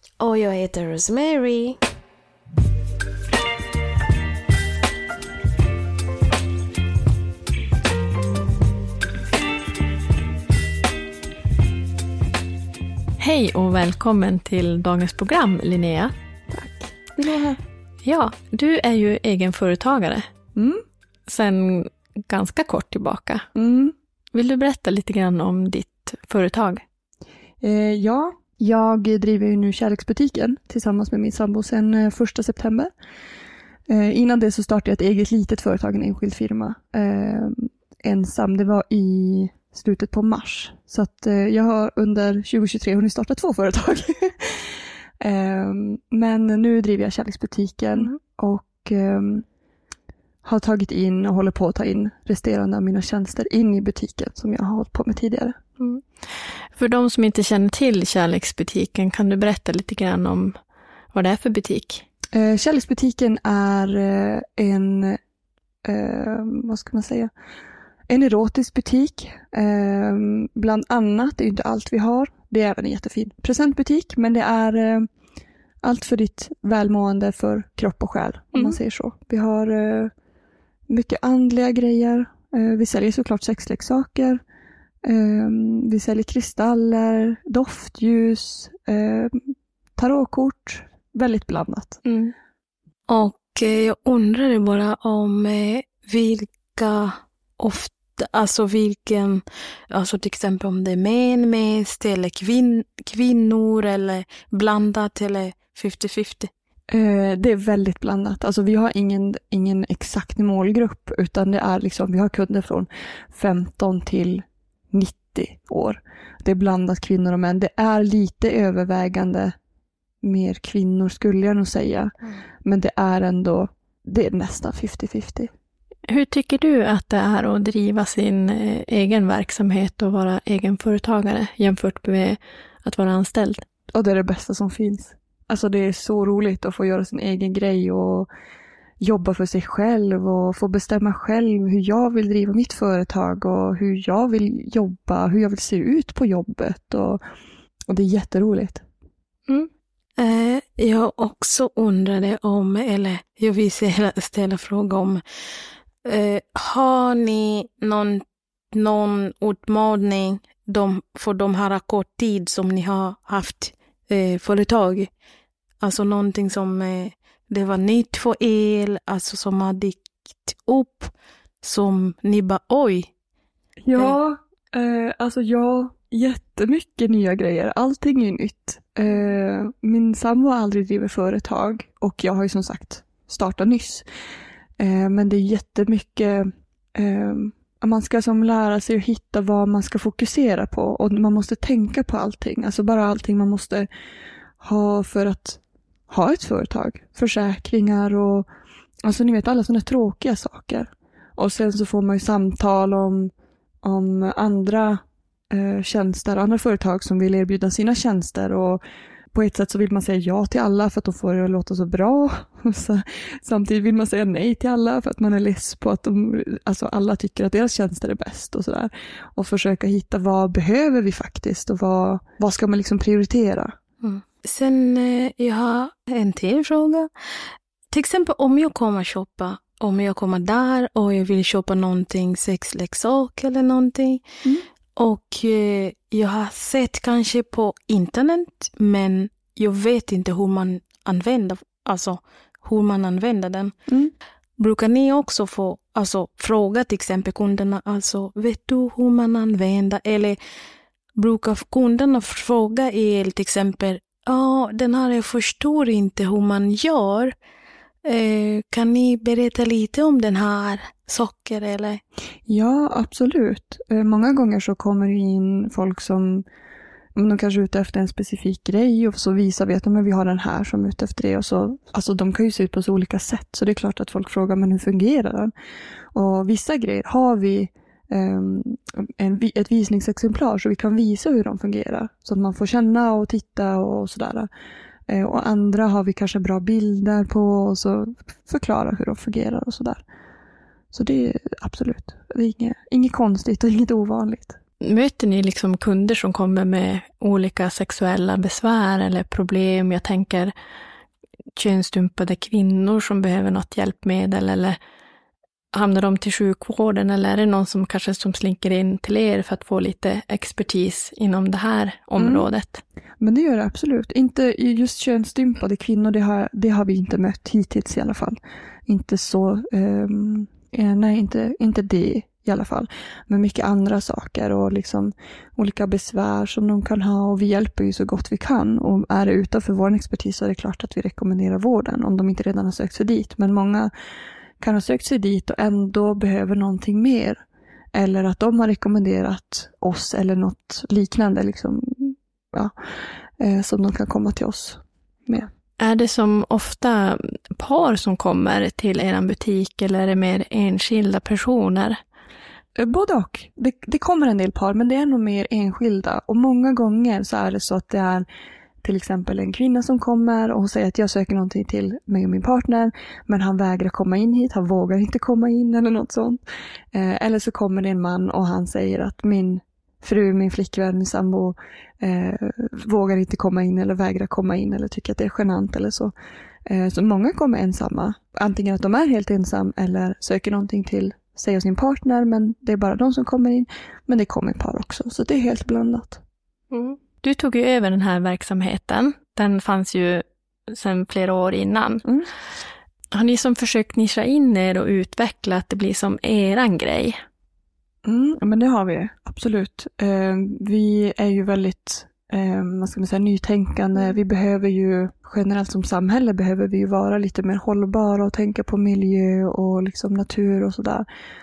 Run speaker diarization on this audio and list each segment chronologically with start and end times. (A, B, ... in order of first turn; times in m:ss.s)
0:00.2-0:01.8 A
0:13.2-0:16.1 B
0:16.5-0:17.6 C
0:18.0-0:20.3 B
0:20.6-0:20.8 C
0:21.3-0:23.5 B
0:23.6-0:24.0 C
0:24.3-0:26.8 B
0:27.6-0:32.9 C
0:33.9-0:49.4 C
0:50.4-0:55.6 C
0:56.8-1:00.6 B
1:01.1-1:02.0 B
1:02.3-1:05.2 C
1:05.8-1:07.3 C
1:08.1-1:15.1 C
1:15.8-1:20.1 C
1:20.9-1:24.4 C
1:25.0-1:32.0 C
1:32.0-1:32.3 B
1:33.1-1:46.5 A
1:46.9-1:59.6 C
2:00.2-2:02.1 C
2:02.6-2:05.5 C
2:06.1-2:13.6 B
2:13.9-2:18.3 C
2:19.0-2:27.2 C
2:27.9-2:28.8 C
2:30.2-2:35.2 A
2:36.0-2:45.1 A
2:45.8-2:53.1 A
2:53.8-3:04.0 C
3:04.8-3:13.9 C
3:14.6-3:18.5 C
3:19.0-3:23.3 C
3:23.8-3:28.8 C
3:29.3-3:43.8 C
3:44.0-3:47.1 A
3:47.9-3:54.2 A
3:55.0-4:03.7 A
4:03.9-4:04.1 C
4:04.6-4:10.4 A
4:11.2-4:17.3 A
4:18.0-4:22.0 A
4:22.5-4:26.5 C
4:27.2-4:35.5 C
4:36.1-4:44.5 C
4:45.1-4:50.0 C
4:50.9-4:54.6 C
4:54.8-5:00.5 B
5:01.6-5:04.8 B
5:05.7-5:12.8 B
5:12.2-5:12.5 C
5:13.2-5:33.9 C
5:34.6-5:37.4 C
5:37.9-5:42.8 C
5:43.4-5:45.5 C
5:45.8-5:52.0 B
5:52.8-5:58.3 C
5:58.8-6:06.4 C
6:06.9-6:16.1 C
6:16.7-6:26.2 C
6:26.7-6:32.1 B
6:33.1-6:37.2 B
6:38.0-6:51.1 C